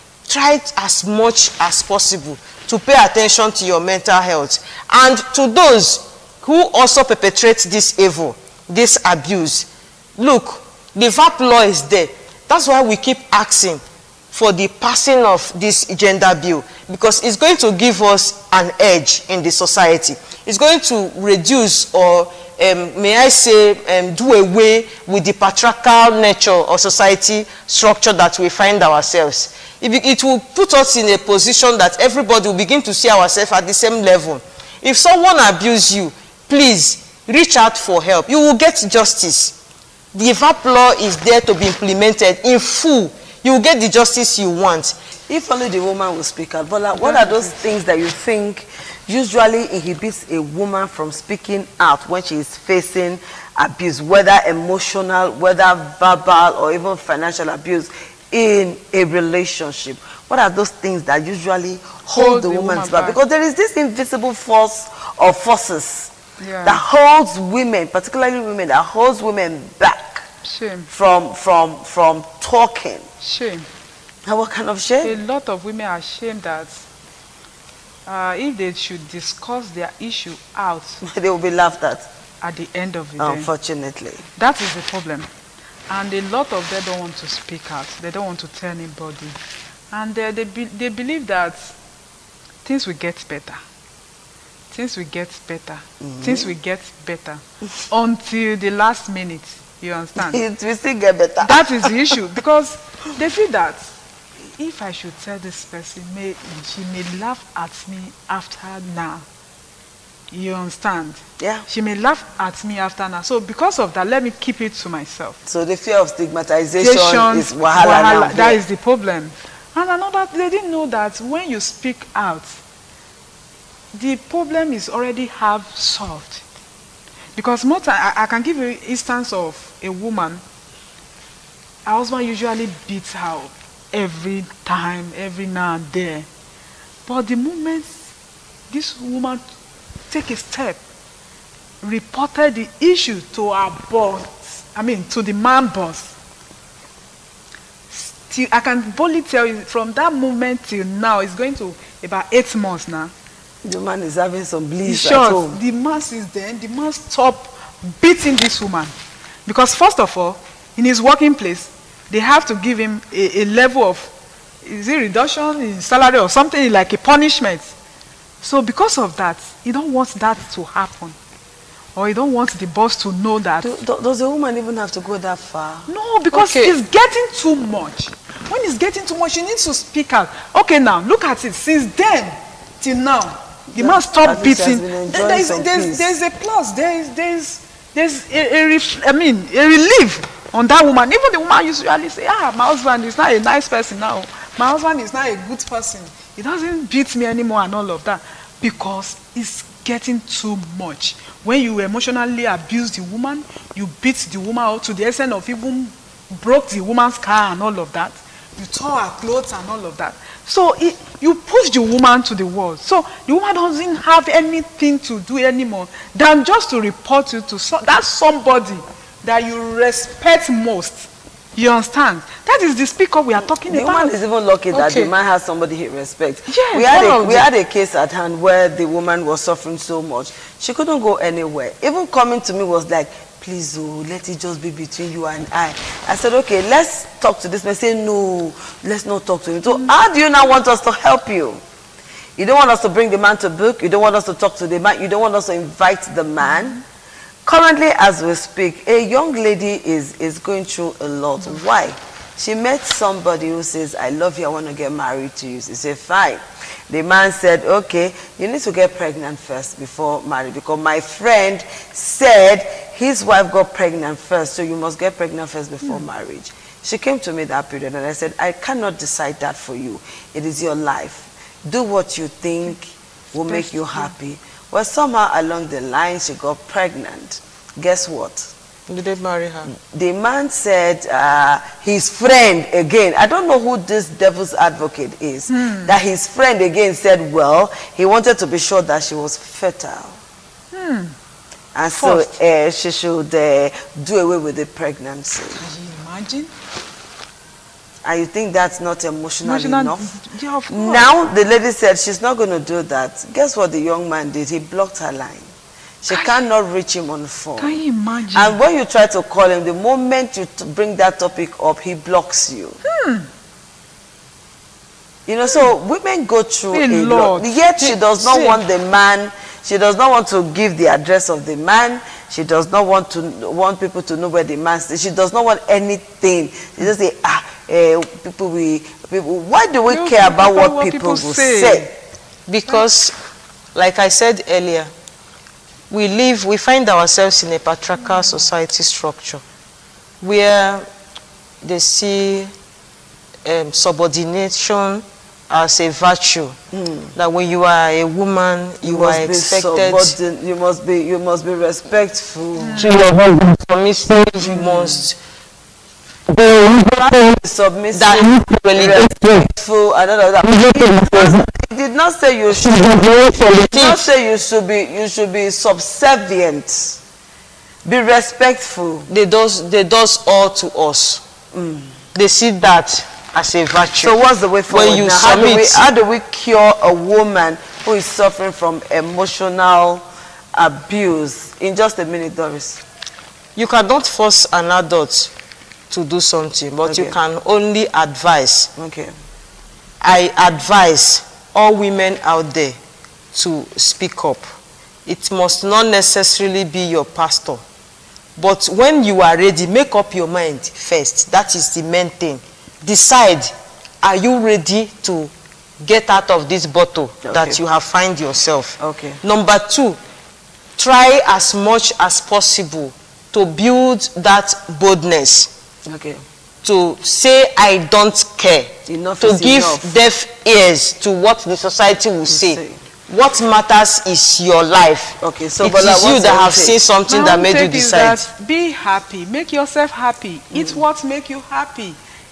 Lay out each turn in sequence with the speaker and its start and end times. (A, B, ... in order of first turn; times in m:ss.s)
0:00.3-0:39.6 A
0:40.1-0:45.0 A
0:45.3-1:06.1 B
0:47.0-0:47.7 C
1:02.1-1:03.2 C
1:06.4-1:06.8 C
1:06.6-1:10.3 B
1:10.4-1:10.9 C
1:10.9-1:13.1 B
1:13.2-1:13.7 C
1:14.3-1:15.2 B
1:15.0-1:16.8 C
1:18.1-1:21.0 C
1:21.0-1:22.1 B
1:22.4-1:23.5 C
1:23.2-1:24.2 B
1:24.4-1:25.3 C
1:25.9-1:29.4 C
1:29.9-1:31.7 C
1:32.6-1:33.6 C
1:34.7-1:40.4 C
1:36.0-1:36.5 B
1:40.2-1:41.9 B
1:41.4-1:43.9 C
1:44.6-1:49.2 C
1:50.3-1:55.4 C
1:51.4-1:51.7 B
1:55.5-1:58.6 B
1:56.8-2:02.6 C
2:03.9-2:06.4 C
2:07.4-2:10.4 C
2:11.9-2:16.3 C
2:17.1-2:18.1 C
2:18.7-2:19.4 C
2:20.1-2:20.8 C
2:21.8-2:26.1 C
2:27.9-2:33.1 C
2:33.6-2:35.6 B
2:34.9-2:38.9 C
2:39.5-2:44.1 C
2:44.6-2:47.7 C
2:48.4-2:51.2 C
2:52.0-2:53.7 C
2:53.6-2:55.9 B
2:55.9-3:44.1 C
2:56.3-2:56.8 A
3:03.7-3:06.1 B
3:43.6-4:01.6 B
3:44.7-3:45.1 A
3:46.5-3:47.4 C
4:02.4-4:06.8 B
4:07.5-4:38.5 B
4:33.5-4:34.0 C
4:38.9-4:39.7 A
4:39.7-4:50.2 B
4:45.5-4:46.0 C
4:50.7-4:51.2 C
4:51.8-4:55.6 B
4:51.9-4:52.3 C
4:55.6-4:56.5 C
4:58.0-5:00.2 B
4:59.4-5:01.1 C
5:00.7-5:05.5 B
5:06.0-5:07.8 B
5:06.1-5:06.4 C
5:07.6-5:08.6 C
5:08.3-5:12.8 B
5:12.8-5:13.3 C
5:15.3-5:31.9 B
5:16.7-5:18.4 C
5:29.9-5:31.9 C
5:32.5-5:33.1 A
5:33.8-5:34.9 A
5:35.9-5:39.4 A
5:40.2-5:40.8 A
5:41.6-5:42.5 A
5:43.4-5:46.6 A
5:46.7-5:47.1 B
5:47.2-5:50.2 A
5:48.8-5:52.9 B
5:52.6-5:53.0 C
5:52.8-5:55.2 A
5:54.4-5:55.0 B
5:56.3-5:57.4 A
5:57.2-6:07.0 B
5:57.9-5:59.4 A
6:00.4-6:01.4 A
6:02.6-6:04.1 A
6:07.9-6:09.1 B
6:09.1-6:11.2 A
6:11.5-6:12.0 B
6:12.2-6:14.2 A
6:14.0-6:22.8 B
6:14.7-6:15.8 A
6:23.6-6:25.3 A
6:25.9-6:28.7 A
6:26.8-6:27.2 B
6:28.8-6:29.1 B
6:30.0-6:32.8 A
6:33.3-6:34.4 A
6:35.1-6:37.6 A
6:38.4-6:43.5 A
6:44.0-6:50.0 A
6:47.2-6:47.6 B
6:48.8-6:49.2 B
6:50.8-6:55.5 A
6:55.9-6:56.2 B
6:56.6-7:08.3 A
6:58.9-6:59.9 B
7:02.3-7:02.8 B
7:05.2-7:06.8 B
7:07.1-7:12.0 C